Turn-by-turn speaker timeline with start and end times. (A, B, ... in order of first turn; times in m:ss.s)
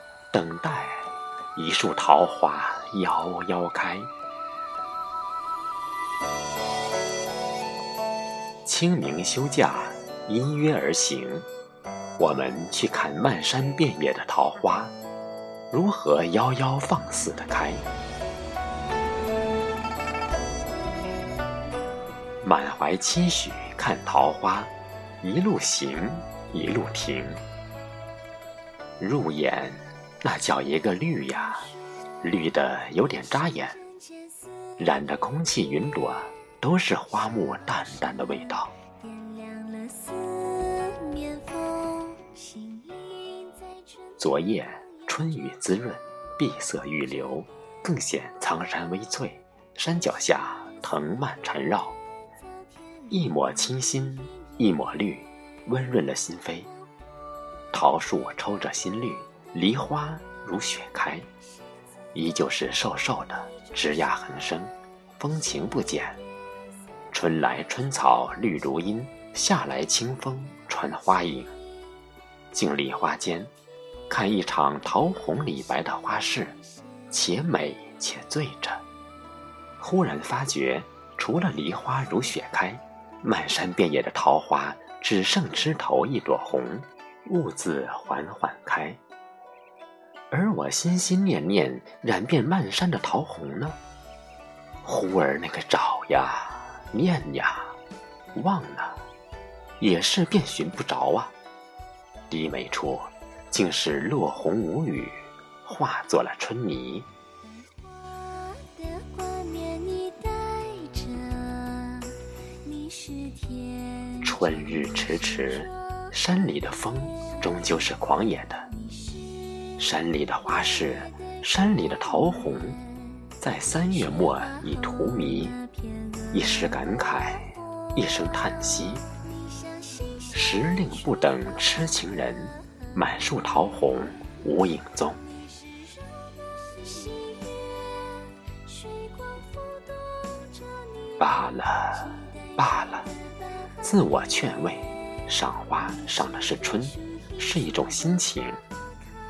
0:00.3-0:04.1 A
0:08.6-0:11.5 A
0:12.2-0:14.9 A
0:15.7-0:17.8 A
0:22.4-0:27.4 A
0:29.0-0:31.7 A
0:32.2-0:33.8 A
0:34.8-0:38.7 A
0:44.2-0:52.0 A
0:53.1-0:56.7 A
0:57.7-1:01.3 A
1:02.1-1:06.2 A
1:07.1-1:11.5 A
1:12.5-1:13.5 A
1:14.1-1:16.6 A
1:17.1-1:18.8 A
1:19.8-1:29.0 A
1:30.3-1:33.8 A
1:34.8-1:37.8 A
1:38.4-1:39.0 A
1:39.8-1:41.3 A
1:42.3-1:47.1 A
1:54.2-1:58.7 A
1:59.8-2:02.8 A
2:03.4-2:05.6 A
2:06.3-2:09.1 A
2:10.3-2:15.2 A
2:21.2-2:23.1 A
2:23.8-2:28.6 A